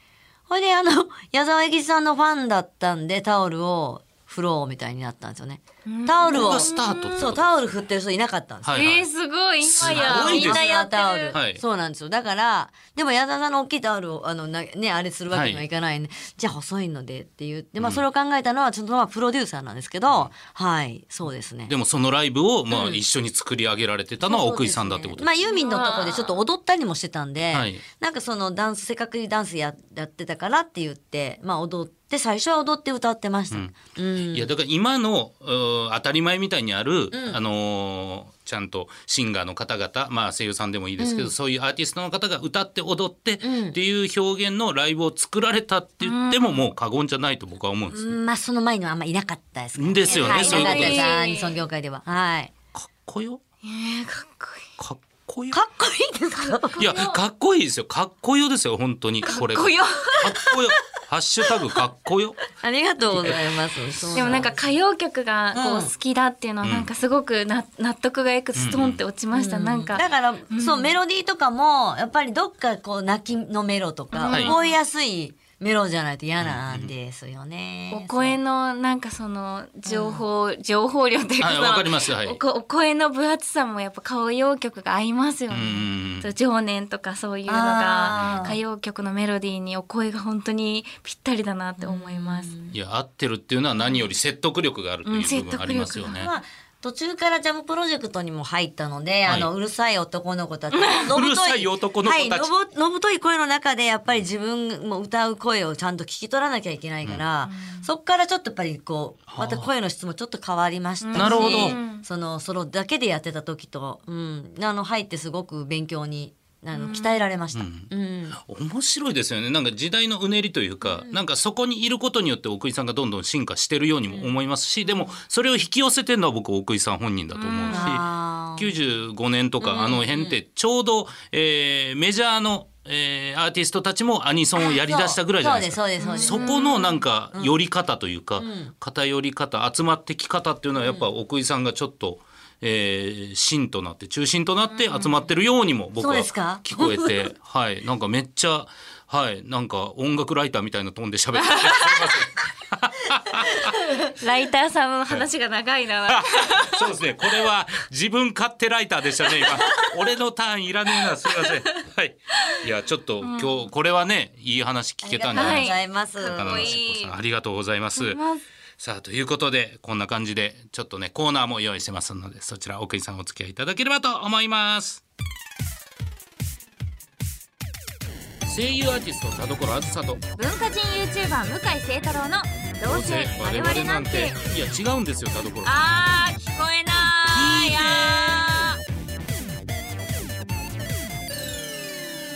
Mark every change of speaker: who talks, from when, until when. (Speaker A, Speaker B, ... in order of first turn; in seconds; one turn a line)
Speaker A: 0.5-8.8
Speaker B: 5.9-7.2
Speaker C: 6.3-7.7
Speaker C: 8.6-9.1
Speaker B: 8.7-11.4
Speaker C: 9.6-10.7
Speaker A: 9.8-21.7
Speaker C: 11.3-11.6
Speaker C: 15.3-15.6
Speaker C: 20.1-20.3
Speaker C: 21.7-25.3
Speaker A: 22.7-23.0
Speaker A: 24.2-34.5
Speaker B: 25.4-26.4
Speaker C: 27.5-27.8
Speaker C: 33.5-48.2
Speaker A: 37.1-37.4
Speaker A: 41.0-41.3
Speaker A: 43.4-43.8
Speaker B: 46.0-46.6
Speaker A: 47.9-52.5
Speaker C: 49.8-51.2
Speaker B: 50.1-51.6
Speaker C: 52.8-53.4
Speaker B: 53.6-54.7
Speaker C: 54.8-55.6
Speaker A: 55.5-56.9
Speaker B: 56.4-57.2
Speaker C: 56.8-62.4
Speaker B: 59.2-60.5
Speaker A: 62.6-64.6
Speaker C: 63.1-63.4
Speaker B: 64.1-71.0
Speaker A: 65.5-65.9
Speaker C: 66.6-66.9
Speaker C: 68.5-69.0
Speaker A: 69.3-78.4
Speaker B: 74.1-74.8
Speaker C: 74.3-74.5
Speaker C: 76.4-76.9
Speaker B: 77.9-92.5
Speaker A: 79.9-80.2
Speaker C: 81.4-82.4
Speaker C: 85.5-86.3
Speaker A: 87.5-88.6
Speaker C: 88.1-88.4
Speaker A: 91.8-92.7
Speaker C: 92.7-96.3
Speaker B: 95.0-96.2
Speaker A: 96.0-118.4
Speaker C: 99.2-99.5
Speaker B: 100.7-101.1
Speaker C: 101.1-102.5
Speaker B: 107.4-107.9
Speaker C: 109.3-109.7
Speaker B: 111.0-112.0
Speaker C: 111.2-111.8
Speaker B: 116.7-117.2
Speaker C: 117.5-153.8
Speaker A: 120.9-121.2
Speaker B: 127.3-127.9
Speaker A: 127.7-128.7
Speaker A: 129.6-130.4
Speaker A: 134.6-136.6
Speaker B: 136.0-137.0
Speaker A: 138.4-138.7
Speaker B: 144.8-145.1
Speaker A: 146.0-147.3
Speaker B: 151.4-152.2
Speaker B: 154.2-156.9
Speaker C: 156.1-168.2
Speaker B: 161.4-161.7
Speaker B: 163.2-163.7
Speaker A: 165.0-166.8
Speaker B: 165.3-167.1
Speaker B: 168.0-168.4
Speaker C: 168.8-175.0
Speaker C: 178.4-180.2
Speaker B: 180.4-184.4
Speaker C: 182.8-185.8
Speaker B: 185.7-188.8
Speaker C: 187.3-188.6